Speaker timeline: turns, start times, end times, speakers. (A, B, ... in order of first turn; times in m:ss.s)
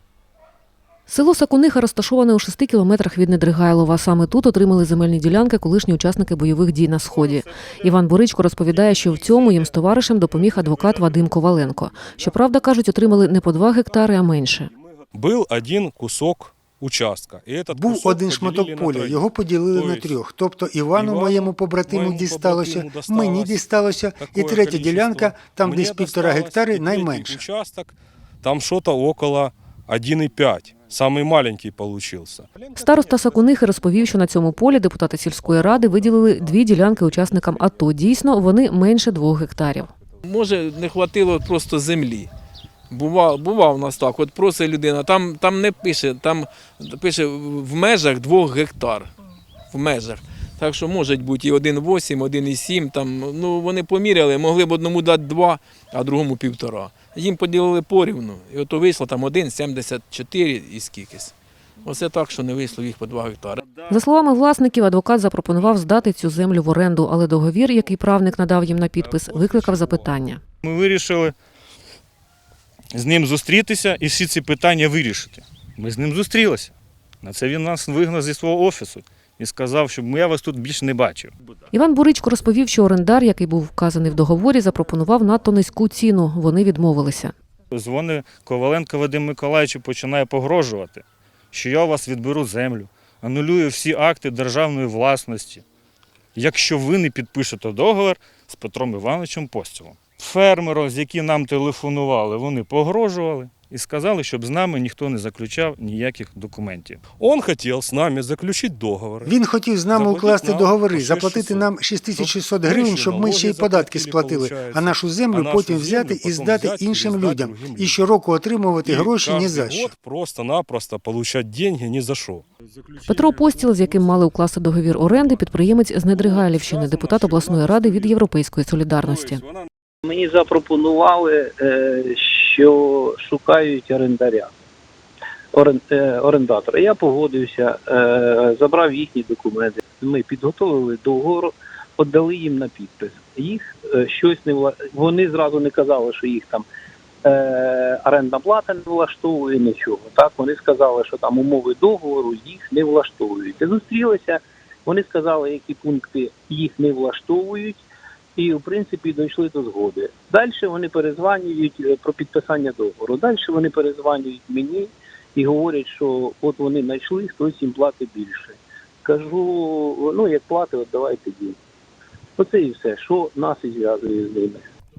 0:01.1-0:14.7 A
0:14.9-0:20.2 B
0:17.7-0:27.4 C
0:20.9-0:23.6 B
0:24.2-0:33.1 B
0:32.7-0:39.9 A
0:40.2-0:42.3 D
0:42.9-0:49.1 D
0:49.7-1:03.6 D
1:03.9-1:10.4 A
1:09.0-1:10.2 B
1:10.6-1:11.3 E
1:12.9-1:21.3 E
1:21.7-1:27.3 A
1:27.7-1:35.6 E
1:36.4-1:47.0 E
1:47.2-1:49.3 B
1:49.2-1:59.9 C
1:49.9-1:58.1 B
1:58.8-2:02.4 B
2:03.0-2:09.4 A
2:06.2-2:08.1 B
2:09.1-2:09.7 B
2:10.0-2:14.5 F
2:15.5-2:26.6 F
2:27.2-2:37.8 F
2:38.4-2:51.6 F
2:52.4-2:54.7 F